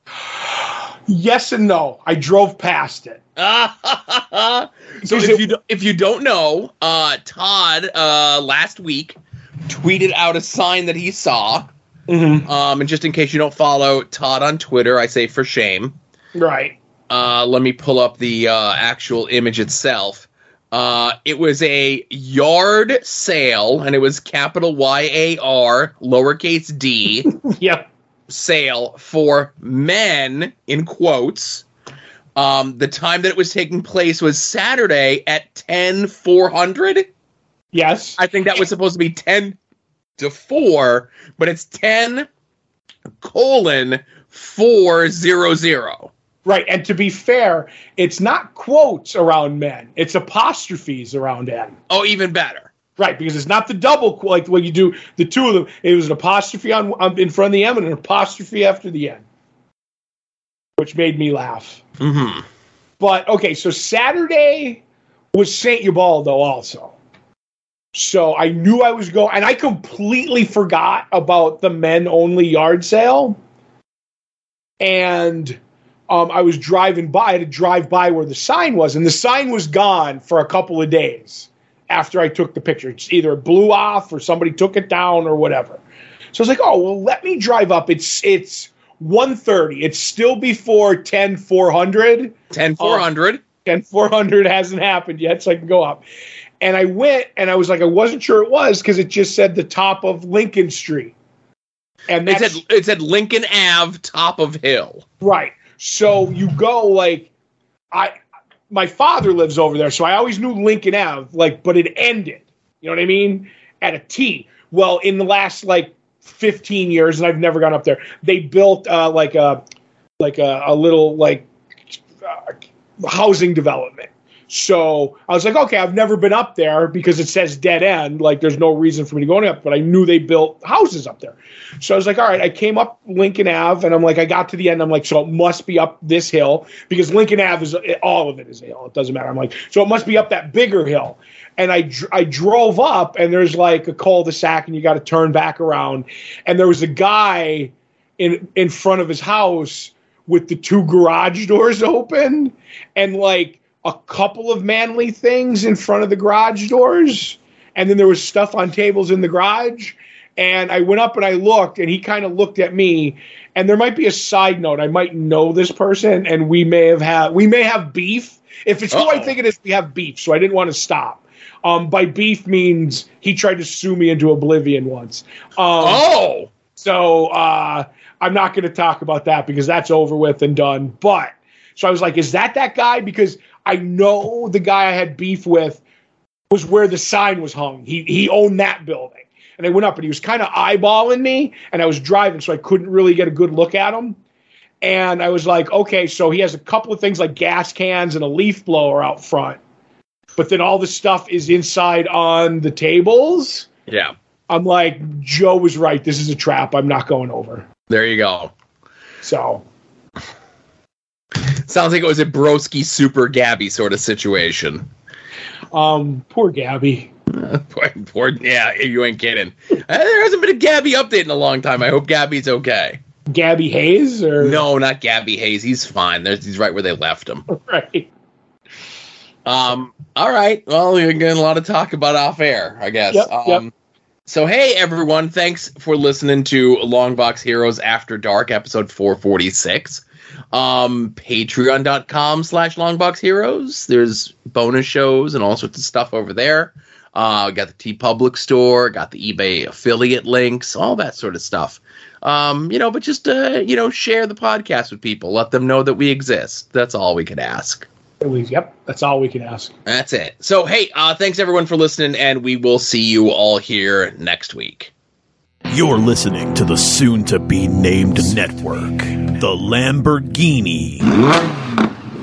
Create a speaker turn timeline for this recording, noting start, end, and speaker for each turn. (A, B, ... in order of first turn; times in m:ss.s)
0:00.3-0:03.2 A
0:03.4-0:11.7 B
0:05.0-0:05.5 A
0:12.1-0:12.5 A
0:12.4-0:16.0 B
0:16.4-0:16.8 A
0:17.1-0:27.3 B
0:27.3-0:27.9 A
0:28.3-0:31.6 B
0:32.4-0:37.1 B
0:37.7-0:38.2 A
0:38.2-0:39.6 B
0:40.2-0:42.3 B
0:43.2-0:46.1 B
0:46.4-0:51.8 A
0:51.9-0:52.7 B
0:53.0-0:59.2 A
1:00.8-1:01.8 A
1:02.0-1:02.5 B
1:03.0-1:04.8 A
1:05.3-1:07.0 A
1:07.9-1:13.4 A
1:14.8-1:25.8 A
1:26.3-1:33.0 A
1:32.5-1:33.4 B
1:33.6-1:36.0 A
1:36.6-1:41.1 A
1:42.1-1:42.6 A
1:42.2-1:45.0 B
1:45.2-1:47.3 A
1:48.7-1:59.6 A
2:00.2-2:56.0 A
2:48.9-2:49.3 B
2:55.8-2:56.5 B
2:56.8-3:05.8 A
3:06.5-3:14.2 A
3:14.8-3:19.6 A
3:20.4-3:23.7 A
3:23.9-3:24.1 B
3:24.5-3:27.7 A
3:27.9-3:28.5 B
3:29.2-3:29.6 A
3:31.7-3:34.9 B
3:35.7-3:37.1 A
3:37.3-3:43.0 B
3:43.3-3:44.6 A
3:44.4-3:47.5 B
3:47.5-3:48.1 A
3:49.5-3:53.7 B
3:53.1-3:53.6 A
3:54.3-4:17.9 B
4:18.2-4:19.7 A
4:19.9-4:24.9 B
4:25.7-4:31.1 C